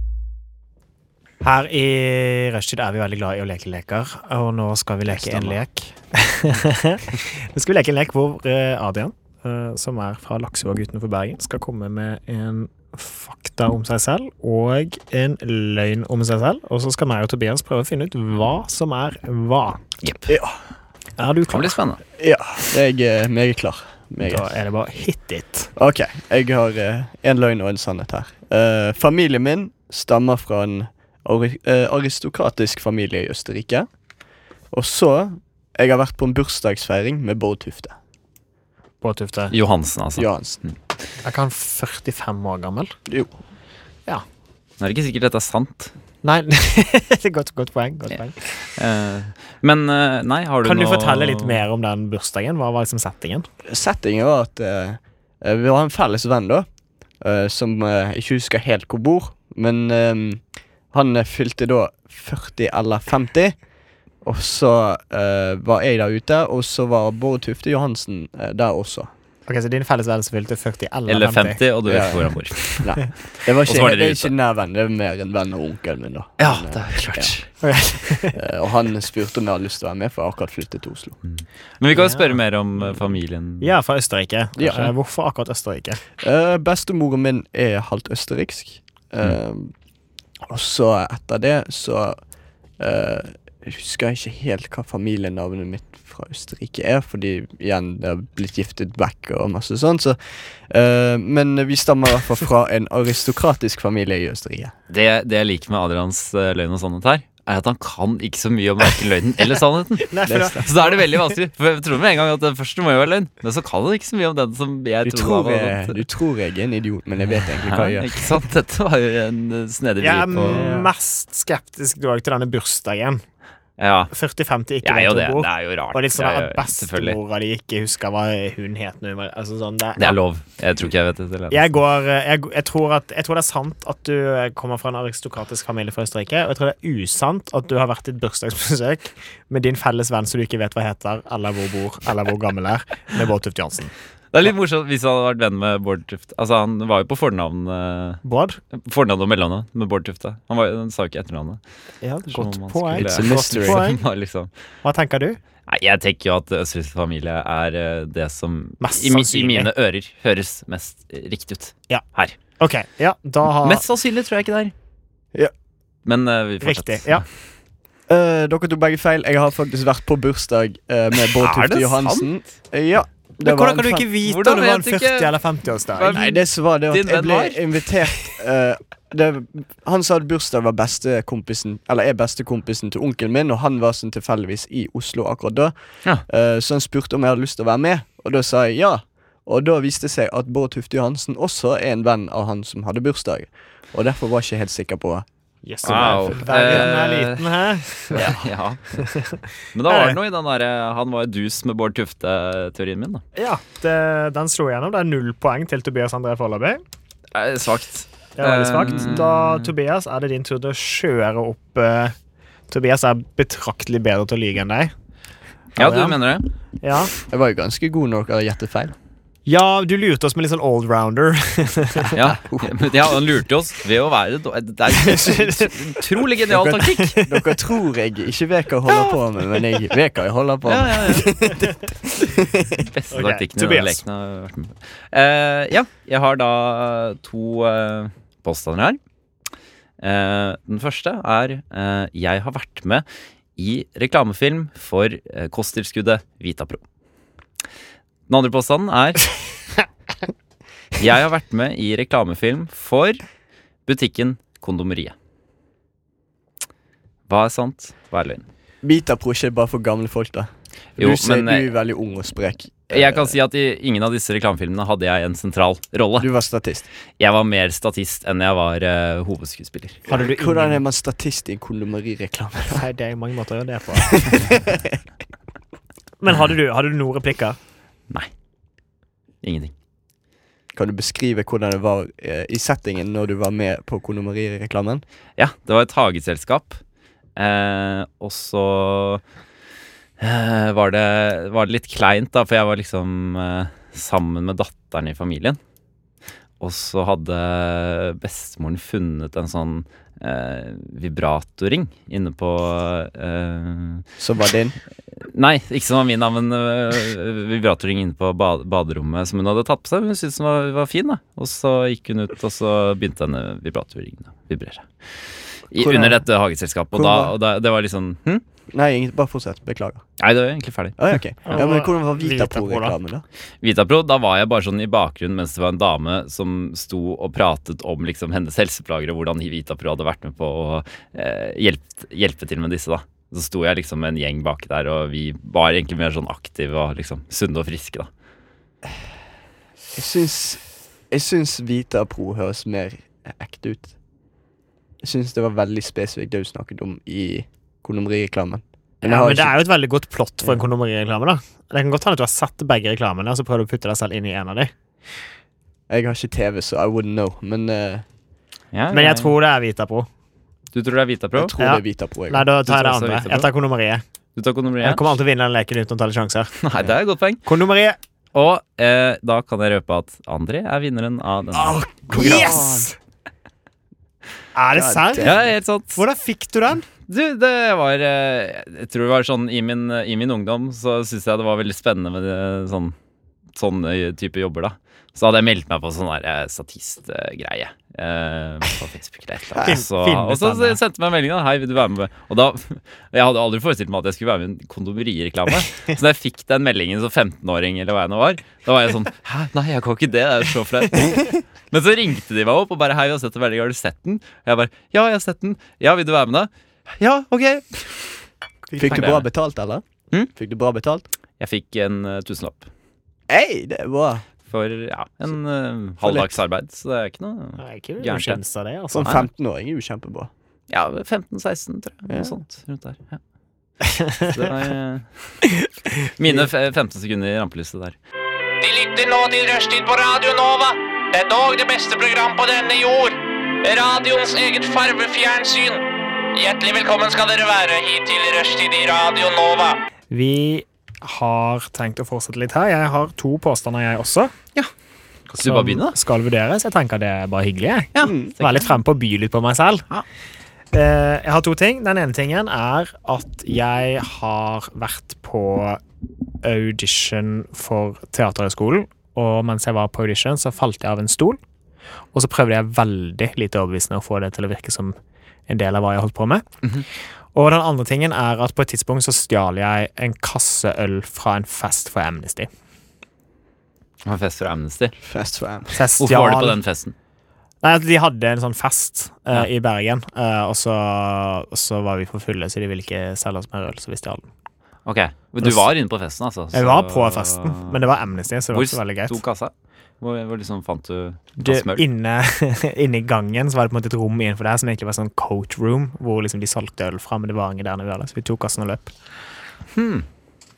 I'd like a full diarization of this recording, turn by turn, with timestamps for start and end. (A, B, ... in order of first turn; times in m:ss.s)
0:01.4-0:19.8 A
0:05.1-0:05.6 B
0:20.0-0:20.4 C
0:20.3-0:20.6 B
0:21.2-0:21.8 A
0:21.5-0:22.0 C
0:22.2-0:24.5 B
0:24.2-0:25.7 A
0:25.8-0:33.9 B
0:34.7-0:38.0 B
0:39.0-0:39.5 A
0:39.5-0:40.8 C
0:40.2-0:40.6 B
0:41.2-0:42.9 A
0:43.1-0:43.3 B
0:44.8-0:45.9 C
0:46.2-0:48.4 A
0:48.2-0:51.6 C
0:50.6-0:53.5 A
0:53.6-0:56.7 B
0:57.2-1:03.6 B
1:04.2-1:09.1 B
1:09.5-1:11.6 A
1:11.1-1:14.3 C
1:11.9-1:17.4 B
1:16.4-1:17.6 C
1:17.6-1:18.4 A
1:18.4-1:21.2 B
1:21.2-1:23.7 C
1:21.9-1:22.4 A
1:23.6-1:26.0 A
1:24.6-1:24.9 B
1:26.2-1:29.7 B
1:30.4-1:32.2 B
1:32.8-1:44.7 B
1:44.9-1:56.0 C
1:50.1-1:50.6 A
1:50.3-1:51.0 B
1:55.0-1:58.4 B
1:57.3-2:00.7 C
2:00.0-2:03.2 A
2:00.4-2:00.9 B
2:03.8-2:04.1 C
2:04.1-2:10.2 A
2:04.8-2:07.2 C
2:10.0-2:11.8 C
2:11.5-2:23.9 A
2:24.3-2:28.2 C
2:28.2-2:28.6 A
2:28.8-2:31.6 C
2:32.0-2:34.0 A
2:32.3-2:34.5 C
2:33.0-2:33.8 B
2:34.8-2:35.4 A
2:35.7-2:42.4 C
2:38.8-2:39.7 A
2:42.6-2:43.8 A
2:43.6-2:44.7 C
2:46.0-2:47.2 C
2:46.6-2:47.2 A
2:48.1-2:54.1 B
2:51.4-2:52.3 C
2:53.4-2:56.2 A
2:54.2-2:55.3 C
2:55.9-2:57.6 C
2:56.1-3:05.7 B
3:06.3-3:15.2 B
3:15.6-3:18.3 A
3:15.8-3:16.8 B
3:15.8-3:17.5 C
3:18.1-3:19.1 C
3:19.0-3:20.2 A
3:19.7-3:23.2 C
3:23.4-3:26.8 A
3:27.3-3:29.7 C
3:28.4-3:32.1 A
3:32.7-3:34.9 A
3:35.8-3:36.2 A
3:35.8-3:36.5 C
3:36.8-3:37.1 A
3:37.3-3:39.0 B
3:39.5-3:42.1 A
3:42.1-3:43.0 B
3:42.1-3:47.2 C
3:45.1-3:45.8 A
3:46.5-3:52.8 B
3:46.8-3:47.4 A
3:48.9-3:49.2 C
3:50.6-3:51.4 C
3:51.4-3:51.7 A
3:52.8-3:59.0 C
3:53.1-3:54.0 A
4:00.0-4:03.0 C
4:03.6-4:06.8 C
4:08.3-4:09.4 C
4:11.0-4:13.2 C
4:13.9-4:15.2 C
4:17.3-4:18.5 C
4:18.8-4:23.3 B
4:21.0-4:21.7 C
4:22.9-4:26.3 C
4:26.2-4:26.9 B
4:27.2-4:30.0 C
4:30.1-4:32.8 B
4:30.1-4:30.8 A
4:32.7-4:34.6 A
4:34.1-4:35.0 B
4:36.2-4:37.6 A
4:39.4-4:39.7 C
4:40.7-4:45.0 B
4:45.4-4:46.8 C
4:47.4-4:49.2 C
4:50.2-4:55.6 C
4:56.6-5:04.0 C
5:04.2-5:04.8 B
5:05.2-5:18.4 C
5:15.7-5:16.2 B
5:16.9-5:17.4 B
5:18.7-5:20.0 B
5:20.2-5:21.1 C
5:21.0-5:23.2 B
5:21.5-5:23.0 A
5:23.6-5:38.1 C
5:40.0-5:43.9 B
5:45.0-5:49.6 B
5:49.0-5:54.7 A
5:55.9-5:58.0 B
5:58.7-5:59.3 C
5:58.9-6:00.1 A
6:00.7-6:01.6 C
6:01.4-6:02.5 B
6:01.6-6:04.0 A
6:02.7-6:03.5 C
6:04.4-6:05.0 C
6:04.8-6:06.5 A
6:06.6-6:07.4 C
6:07.4-6:08.0 A
6:08.3-6:12.5 C
6:11.5-6:12.9 B
6:12.1-6:12.9 A
6:14.6-6:15.3 A
6:14.7-6:15.5 B
6:15.2-6:16.0 C
6:16.0-6:16.9 A
6:17.1-6:23.0 C
6:23.6-6:48.2 C
6:29.6-6:30.8 A
6:48.7-6:49.2 A
6:48.8-6:51.1 B
6:48.8-6:49.2 C
6:51.4-6:52.7 C
6:53.3-6:54.3 B
6:54.5-6:58.4 C
6:56.0-6:56.4 B
6:57.6-6:59.2 A
6:58.9-7:00.3 B
7:00.7-7:03.2 C
7:02.1-7:02.4 B
7:03.9-7:04.3 A
7:04.2-7:05.4 C
7:06.2-7:08.0 C
7:08.6-7:19.8 D
7:20.1-7:24.3 A
7:25.3-7:26.0 C
7:25.4-7:29.8 A
7:28.0-7:28.8 C
7:28.0-7:28.3 B
7:30.7-7:35.8 A
7:36.4-7:41.4 A
7:42.1-7:45.0 A
7:45.5-7:46.4 A
7:47.3-7:52.5 A
7:54.0-7:55.0 C
7:55.0-7:55.8 B
7:55.8-7:56.6 A
7:56.0-7:57.0 C
7:57.6-8:04.3 A
8:04.9-8:07.8 C
8:06.5-8:09.2 A
8:08.5-8:11.9 C
8:11.4-8:18.9 A
8:19.8-8:20.1 C